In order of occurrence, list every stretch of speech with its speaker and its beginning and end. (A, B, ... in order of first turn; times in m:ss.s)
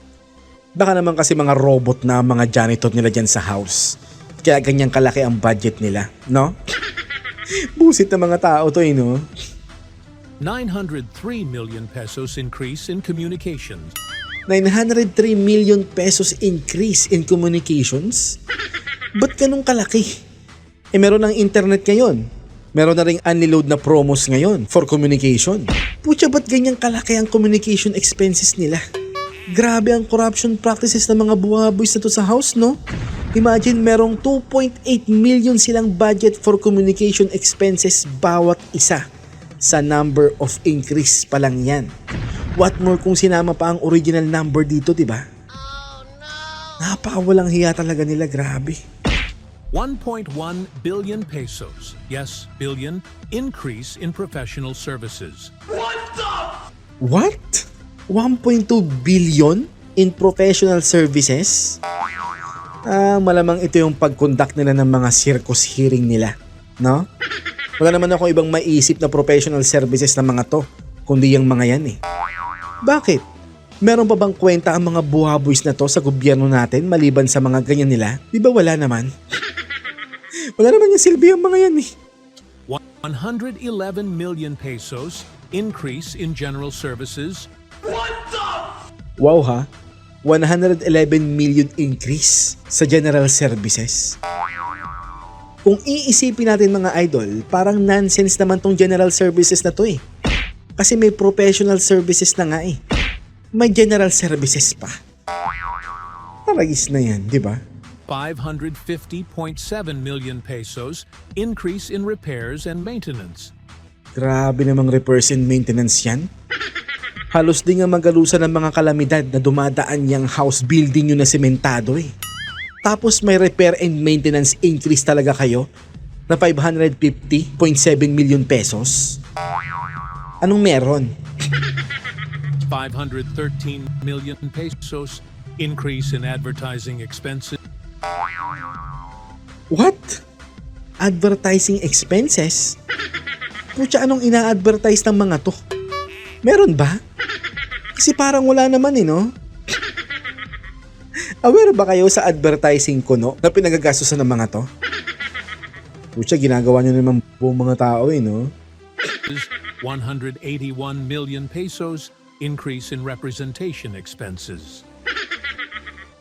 0:00.8-0:03.9 A
0:04.4-0:06.6 A
0:07.8-0:09.2 A
0:10.4-0:14.0 B
0:14.5-0:18.4 A
0:19.2-0:20.1 A
0:21.0-0:22.2 A
0:22.8-0:28.8 A
0:29.5-0:32.8 A
0:33.4-0:39.0 A
0:39.6-0:41.9 A
0:42.6-0:45.2 A
0:46.8-0:48.8 A
0:49.7-0:55.5 B
0:57.0-1:01.8 A
1:02.9-1:07.0 A
1:07.8-1:12.0 A
1:12.9-1:13.2 A
1:13.8-1:19.1 A
1:20.6-1:21.9 A
1:22.7-1:27.5 B
1:29.2-1:29.7 A
1:30.2-1:34.2 A
1:35.6-1:40.0 A
1:40.8-1:42.8 A
1:43.6-1:45.0 A
1:46.5-1:47.6 A
1:48.1-1:53.5 B
1:54.2-1:56.3 A
1:57.3-2:02.1 A
2:02.8-2:05.7 A
2:06.3-2:09.2 A
2:10.4-2:11.1 A
2:12.6-2:17.6 B
2:19.7-2:20.2 A
2:21.0-2:22.8 A
2:23.8-2:25.6 A
2:26.4-2:27.0 A
2:28.0-2:29.3 A
2:31.4-2:34.6 A
2:36.2-2:38.5 A
2:39.3-2:44.8 B